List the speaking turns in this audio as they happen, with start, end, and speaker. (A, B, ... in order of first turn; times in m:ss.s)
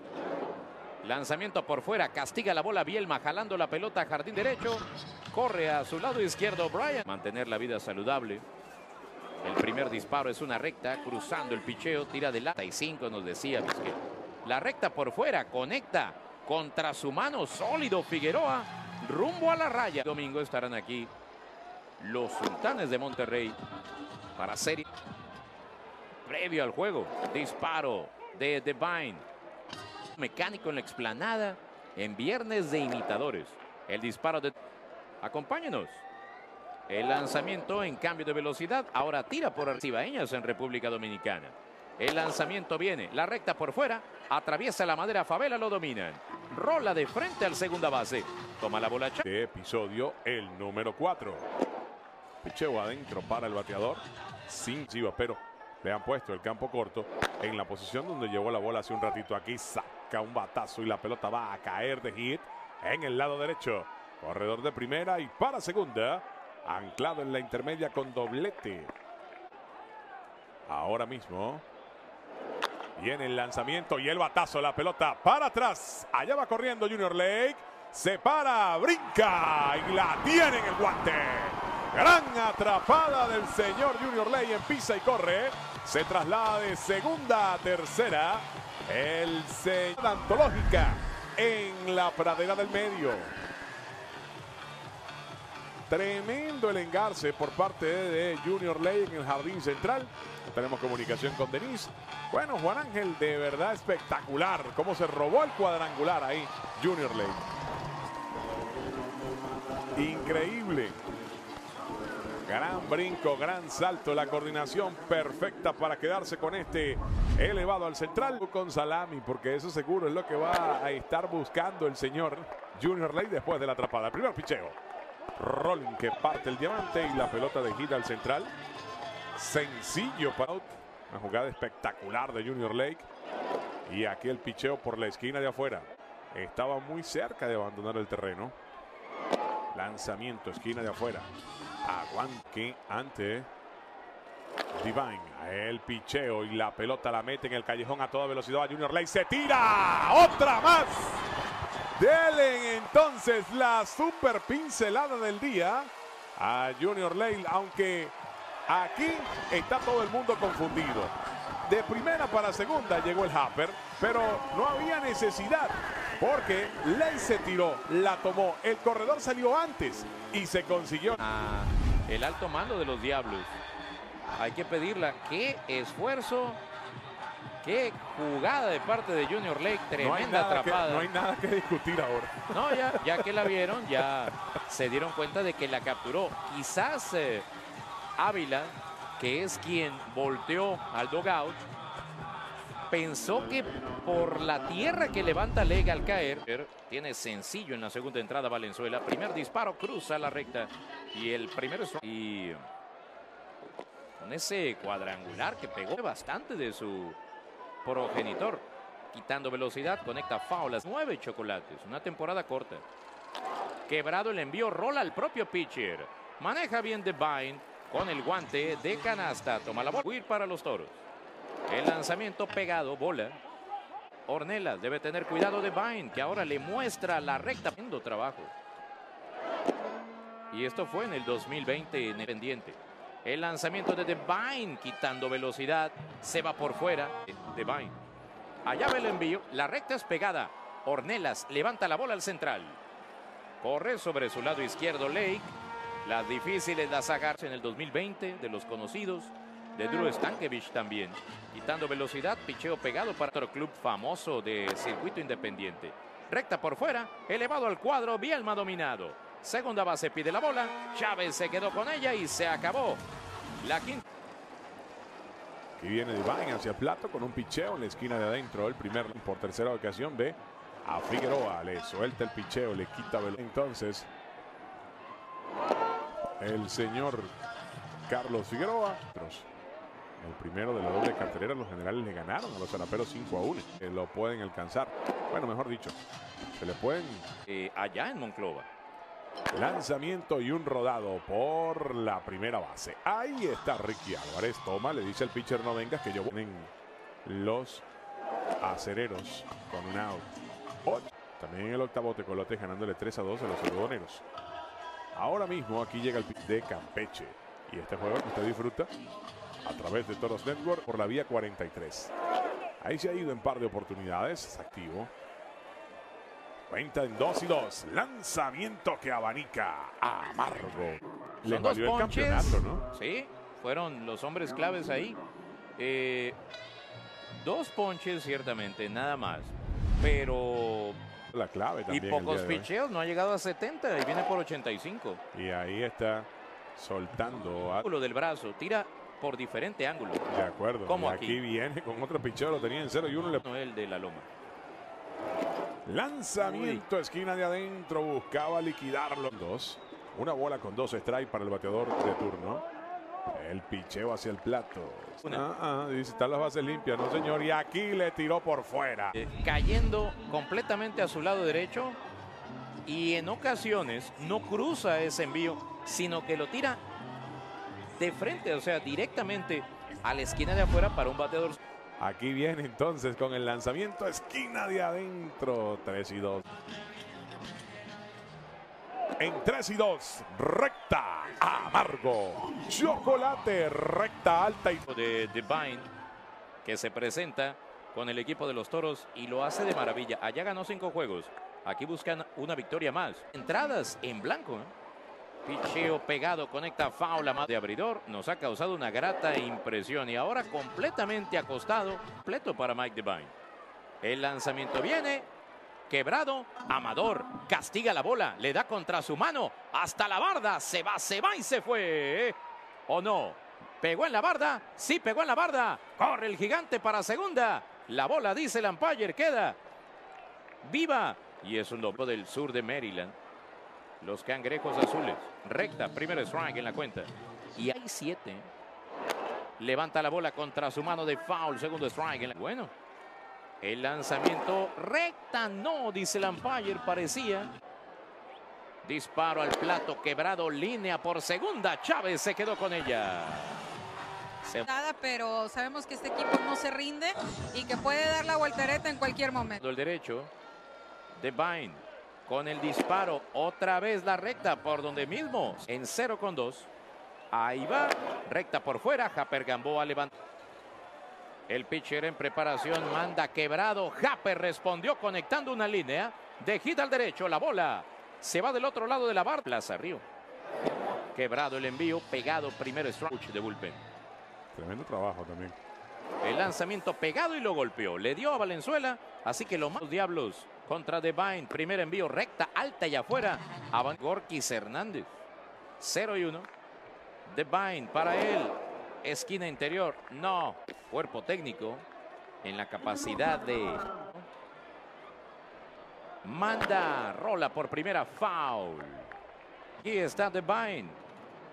0:01.0-0:08.4 A
0:09.4-0:21.1 A
0:22.0-0:23.6 A
0:24.4-0:24.9 A
0:26.2-0:29.2 A
0:30.1-0:34.5 A
0:35.2-0:36.0 A
0:36.9-0:49.3 A
0:49.2-0:51.5 B
0:52.4-1:08.9 B
1:10.7-1:11.6 B
1:13.0-1:33.3 B
1:35.9-1:47.5 B
1:49.9-1:51.0 B
1:52.4-2:04.8 B
2:05.4-2:08.5 B
2:09.4-2:13.0 B
2:13.8-2:18.5 B
2:19.7-2:21.3 B
2:21.8-2:23.5 B
2:24.7-2:31.3 B
2:32.0-2:38.1 B
2:38.7-2:41.1 B
2:41.7-2:51.2 B
2:51.2-2:53.6 A
2:54.3-2:56.6 A
2:57.6-3:01.1 A
3:00.0-3:03.8 B
3:02.5-3:07.5 A
3:08.2-3:11.6 A
3:12.9-3:22.6 A
3:24.2-3:27.2 A
3:27.8-3:32.8 A
3:33.9-3:41.0 A
3:41.7-3:43.4 A
3:44.3-3:48.5 A
3:50.5-3:58.0 A
3:58.6-4:02.8 A
4:03.6-4:23.0 A
4:23.6-4:24.0 A
4:25.8-4:34.1 B
4:36.4-4:37.3 B
4:38.1-4:39.5 B
4:40.2-4:46.0 B
4:46.5-4:47.3 B
4:47.5-4:48.7 A
4:49.5-4:56.7 B
4:57.2-4:57.8 B
4:58.6-5:04.2 B
5:05.1-5:08.9 B
5:09.6-5:12.1 B
5:12.8-5:15.1 B
5:16.7-5:22.8 B
5:21.4-5:25.2 A
5:25.8-5:26.4 A
5:27.3-5:31.0 A
5:31.3-5:32.7 B
5:31.9-5:35.2 A
5:35.3-5:37.8 B
5:37.8-5:40.3 A
5:40.3-5:43.4 B
5:40.8-5:41.4 A
5:43.4-5:44.3 A
5:45.8-5:52.6 B
5:46.4-5:46.8 A
5:53.3-5:59.2 B
5:59.1-6:02.0 A
6:02.8-6:06.8 A
6:08.0-6:11.6 A
6:12.0-6:16.4 B
6:19.2-6:24.9 B
6:24.9-6:25.9 A
6:26.6-6:34.7 A
6:35.4-6:43.3 A
6:44.0-6:45.3 A
6:45.9-6:52.4 A
6:52.9-6:59.6 A
7:00.6-7:03.2 A
7:04.0-7:08.5 A
7:09.6-7:12.7 A
7:13.6-7:17.5 A
7:18.8-7:23.6 A
7:24.4-7:24.7 A
7:24.7-7:29.6 C
7:29.6-7:30.3 A
7:31.2-7:36.7 A
7:37.3-7:40.1 A
7:41.5-7:50.0 A
7:51.1-7:53.8 A
7:54.5-7:55.6 B
7:56.2-8:05.1 A
8:05.8-8:06.5 A
8:07.2-8:11.8 A
8:12.4-8:14.3 A
8:16.2-8:19.1 A
8:19.8-8:21.0 A